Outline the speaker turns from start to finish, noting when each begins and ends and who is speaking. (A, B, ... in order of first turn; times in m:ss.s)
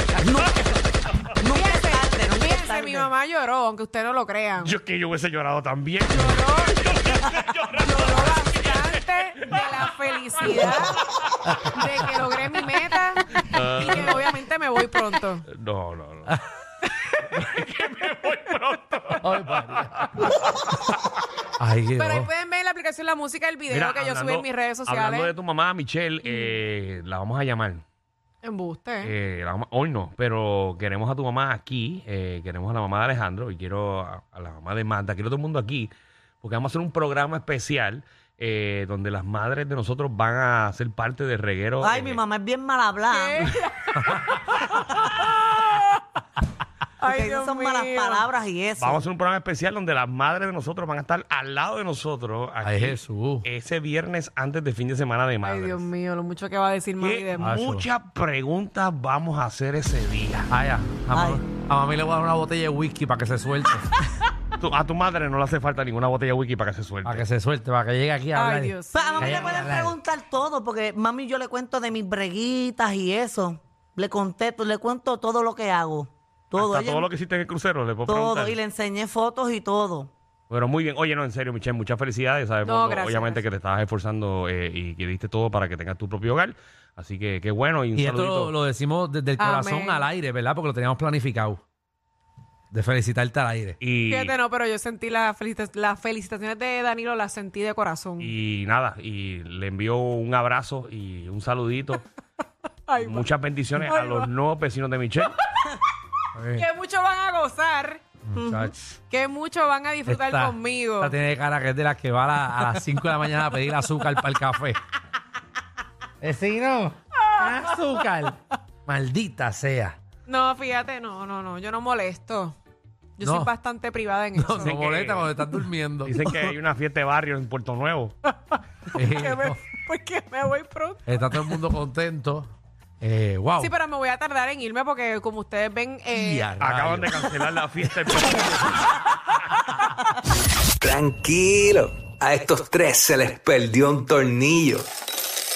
0:00.2-0:00.8 A
0:00.6-0:01.2 B
0:01.4-0:03.1 A
0:01.5-0:04.7 C
0:04.6-0:11.3 B
0:06.1-0:06.9 C
0:07.8-0:11.0 C
0:11.5-0:11.8 D
0:11.8-0:15.5 C
0:13.4-0:14.4 B
0:15.5-0:16.4 B
0:17.3-0:20.3 B
0:19.2-0:20.3 D
0:21.6-0:22.3 D
0:22.0-0:25.3 C
0:23.7-0:27.8 B
0:26.2-0:26.6 C
0:28.4-0:29.1 C
0:29.0-0:35.9 B
0:36.4-0:42.2 B
0:41.8-0:43.6 A
0:43.1-0:46.0 C
0:44.0-0:44.3 D
0:47.0-0:48.2 C
0:47.0-0:49.0 A
0:48.8-0:55.9 B
0:52.6-0:53.4 D
0:55.4-0:57.5 C
0:57.0-1:00.5 B
0:57.4-0:57.9 D
1:00.5-1:03.9 D
1:01.1-1:01.4 A
1:04.6-1:07.2 B
1:07.0-1:10.0 D
1:08.3-1:09.7 C
1:08.9-1:17.1 A
1:16.6-1:18.6 B
1:18.1-1:20.1 A
1:20.5-1:28.5 B
1:22.6-1:23.4 C
1:28.0-1:31.6 D
1:29.4-1:30.1 C
1:32.7-1:33.8 D
1:33.8-1:34.4 B
1:34.1-1:38.3 C
1:38.2-1:42.0 B
1:42.9-1:44.3 C
1:43.0-1:45.4 B
1:46.4-1:46.7 D
1:46.6-1:48.0 C
1:48.3-1:48.8 D
1:48.4-1:48.7 A
1:49.1-1:51.2 C
1:50.1-1:54.8 D
1:56.2-2:00.0 D
1:57.2-1:57.9 C
2:00.3-2:02.6 C
2:03.2-2:04.8 C
2:03.2-2:03.5 D
2:04.4-2:06.4 D
2:04.6-2:05.3 B
2:06.0-2:08.2 B
2:08.3-2:11.6 C
2:08.9-2:09.6 D
2:11.1-2:12.5 D
2:13.0-2:13.7 D
2:13.6-2:16.5 C
2:16.1-2:17.3 D
2:16.6-2:18.9 B
2:20.8-2:24.9 E